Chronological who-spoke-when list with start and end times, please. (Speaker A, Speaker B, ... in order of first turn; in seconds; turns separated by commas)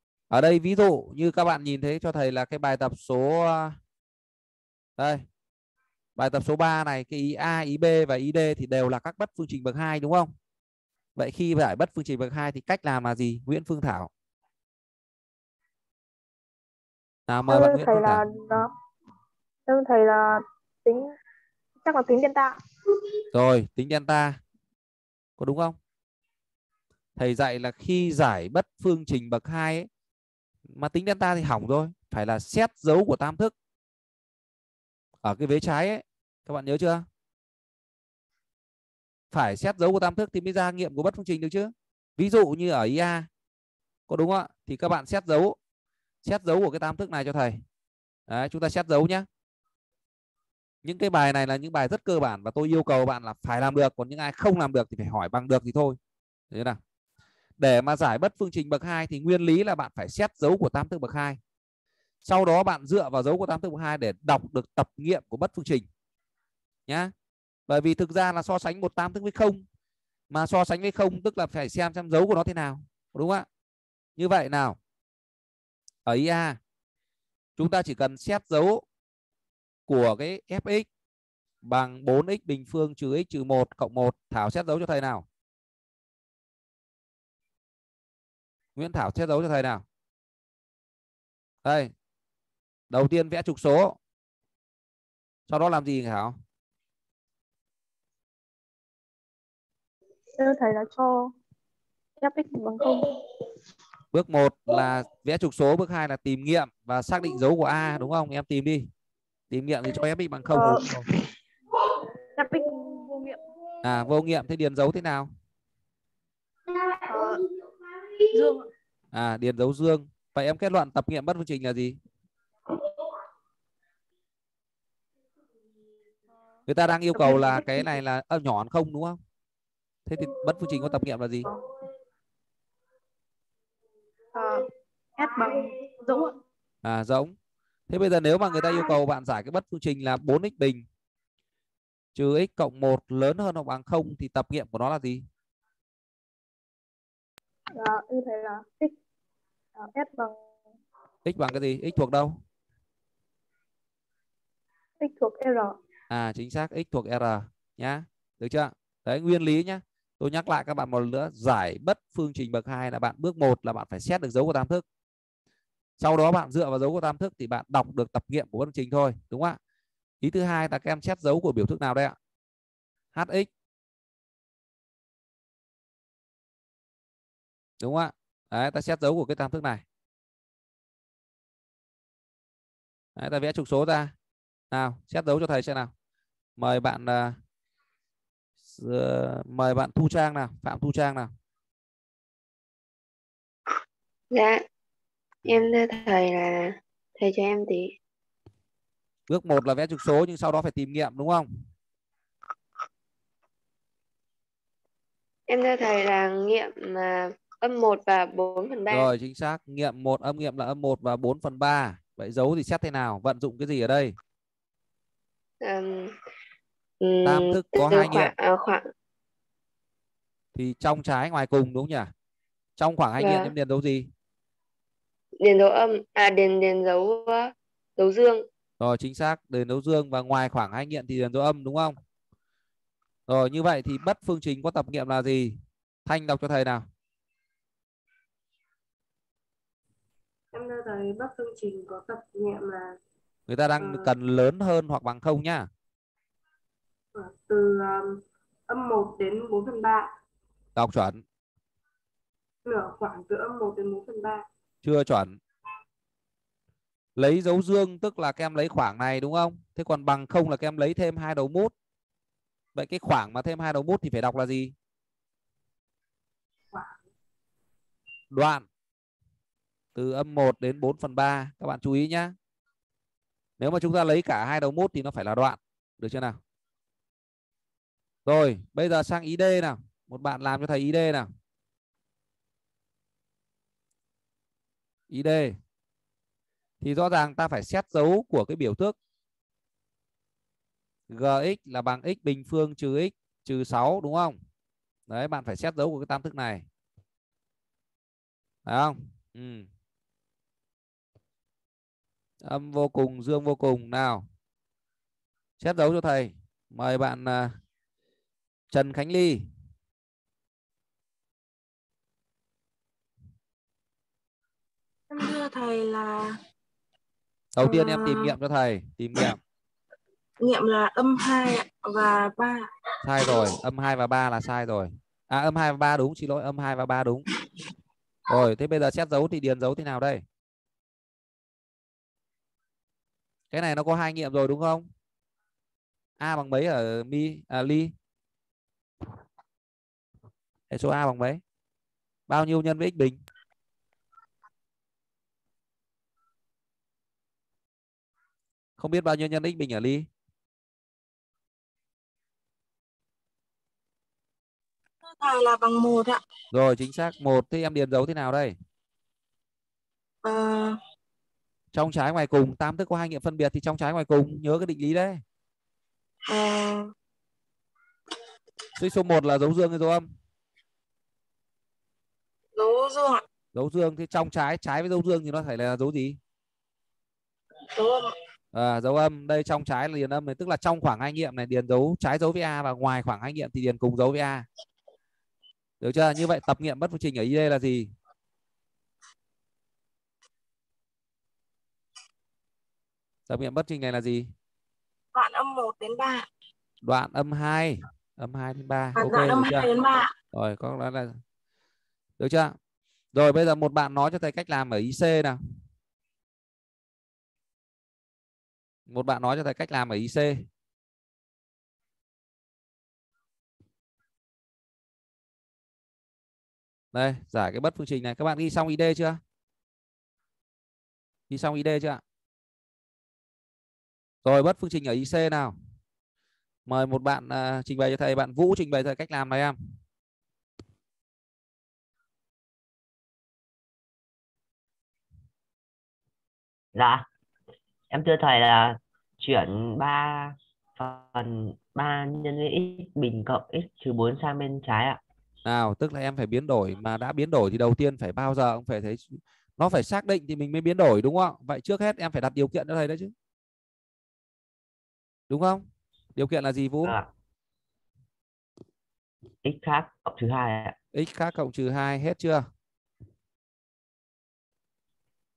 Speaker A: 0.3-3.8, Speaker A: 5.0-5.2, Speaker A: 6.2-10.3, Speaker A: 11.2-14.1, Speaker A: 17.3-18.2, Speaker B: 17.5-18.7, Speaker B: 19.7-21.1, Speaker B: 21.8-22.6, Speaker A: 23.3-24.4, Speaker A: 25.4-25.8, Speaker A: 27.1-29.9, Speaker A: 30.7-33.5, Speaker A: 35.2-37.0, Speaker A: 39.3-43.3, Speaker A: 44.1-45.6, Speaker A: 46.2-47.6, Speaker A: 48.3-49.2, Speaker A: 50.8-56.0, Speaker A: 56.5-56.8, Speaker A: 57.6-61.4, Speaker A: 62.2-65.9, Speaker A: 66.9-67.1, Speaker A: 67.7-69.6, Speaker A: 70.3-73.5, Speaker A: 74.2-74.8, Speaker A: 76.0-76.6, Speaker A: 77.6-78.8, Speaker A: 79.9-80.9, Speaker A: 81.6-85.2, Speaker A: 88.8-89.8, Speaker A: 91.6-91.9, Speaker A: 92.9-94.0, Speaker A: 95.5-96.4, Speaker B: 100.4-101.3, Speaker B: 102.2-103.0, Speaker A: 104.1-108.9, Speaker A: 109.5-111.1, Speaker B: 112.4-113.3, Speaker A: 113.8-115.3, Speaker A: 119.1-122.0, Speaker A: 126.7-129.2, Speaker B: 127.3-127.7, Speaker A: 130.1-131.5, Speaker B: 134.3-134.6, Speaker B: 135.2-136.3, Speaker A: 136.8-137.3, Speaker A: 137.9-140.8, Speaker A: 142.1-145.2, Speaker B: 147.7-148.9, Speaker B: 149.8-150.3, Speaker A: 151.2-152.4, Speaker B: 155.0-155.8, Speaker A: 156.1-164.8, Speaker A: 166.0-169.6, Speaker A: 170.2-172.2, Speaker A: 173.1-173.5, Speaker A: 177.8-179.8, Speaker A: 183.2-184.1, Speaker A: 184.7-185.9, Speaker A: 186.6-187.4, Speaker A: 188.7-191.3, Speaker C: 194.3-194.6, Speaker C: 195.4-197.9, Speaker A: 199.3-201.6, Speaker C: 205.5-209.1, Speaker A: 208.9-214.1, Speaker C: 215.6-216.1, Speaker C: 217.0-218.8, Speaker A: 217.2-218.3, Speaker A: 220.5-222.1, Speaker A: 222.8-224.1, Speaker C: 223.2-223.5, Speaker C: 225.4-228.4, Speaker A: 228.8-231.9, Speaker A: 233.3-236.8, Speaker D: 240.5-243.0, Speaker A: 243.5-245.7, Speaker D: 243.8-244.1, Speaker D: 247.1-250.1, Speaker A: 250.8-251.2, Speaker D: 252.6-254.4, Speaker A: 254.8-255.4, Speaker A: 257.1-261.7, Speaker A: 262.7-264.7, Speaker D: 266.7-267.0, Speaker A: 268.3-268.6, Speaker A: 269.9-272.3, Speaker A: 273.6-276.4, Speaker A: 278.2-281.3, Speaker A: 285.1-285.6, Speaker A: 286.8-288.9, Speaker A: 291.1-294.4, Speaker A: 295.1-296.6, Speaker A: 298.6-299.7, Speaker A: 302.4-304.2, Speaker A: 305.6-307.6, Speaker A: 308.7-309.5, Speaker E: 315.1-316.4, Speaker A: 317.6-319.4, Speaker E: 317.6-318.3, Speaker E: 320.4-322.7, Speaker A: 323.0-327.2, Speaker A: 328.3-330.2, Speaker A: 333.5-334.9, Speaker A: 336.2-337.9, Speaker A: 340.7-341.4, Speaker A: 342.3-343.2, Speaker A: 348.8-350.1, Speaker E: 355.0-356.2, Speaker A: 356.5-358.5, Speaker E: 360.2-360.8, Speaker A: 361.7-365.2, Speaker E: 366.3-366.9, Speaker A: 368.8-370.1, Speaker E: 372.6-373.2, Speaker A: 373.5-376.2, Speaker E: 377.7-378.1, Speaker A: 378.5-384.4, Speaker A: 385.8-387.9, Speaker A: 393.3-394.3, Speaker E: 395.1-396.2, Speaker A: 396.8-399.7, Speaker E: 398.9-400.1, Speaker A: 400.3-401.2, Speaker A: 402.2-402.5, Speaker A: 403.1-405.4, Speaker A: 408.9-410.5, Speaker A: 416.9-419.2, Speaker A: 421.3-422.0, Speaker A: 424.2-425.6, Speaker A: 426.7-429.6, Speaker F: 436.7-437.1, Speaker F: 437.9-445.0, Speaker A: 445.4-453.1, Speaker A: 455.3-457.0, Speaker F: 456.8-457.1, Speaker F: 459.4-460.8, Speaker A: 460.9-462.4